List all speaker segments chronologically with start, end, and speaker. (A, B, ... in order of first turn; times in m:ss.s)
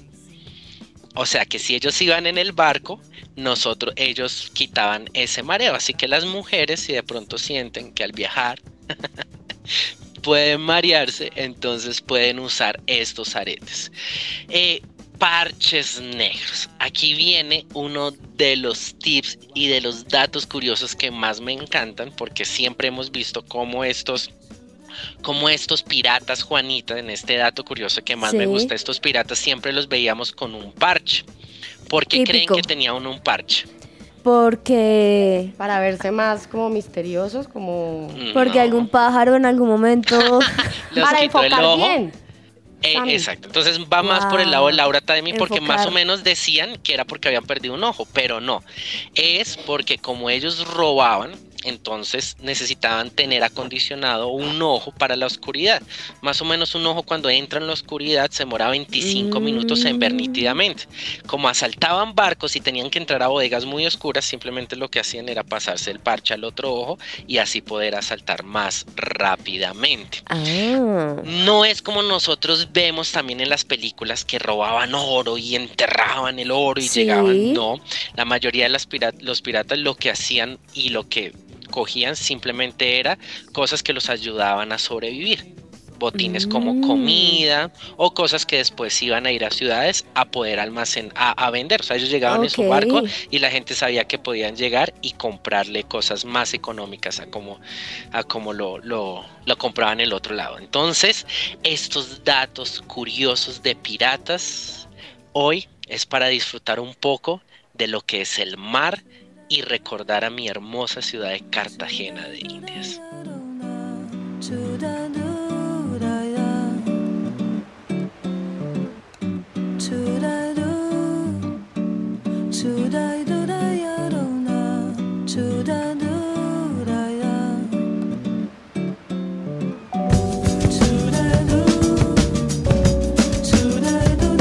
0:01.2-0:08.6 A
0:10.2-0:13.9 A
0:14.5-0:24.3 A
0:25.2-0:31.3 A
0:28.2-0:28.7 B
0:31.9-0:33.7 A
0:32.1-0:32.7 B
0:34.2-0:35.5 B
0:35.6-0:38.2 C
0:38.2-0:38.9 A
0:38.3-0:40.6 B
0:40.2-0:42.0 A
0:41.0-0:42.1 C
0:42.8-0:48.6 A
0:42.9-0:43.3 C
0:44.0-0:46.0 B
0:49.2-1:10.2 A
0:59.0-1:00.6 B
1:10.3-1:11.3 B
1:11.2-1:25.5 A
1:16.8-1:17.6 B
1:26.0-1:37.6 A
1:26.2-1:27.4 B
1:32.3-1:33.1 B
1:38.1-1:53.0 A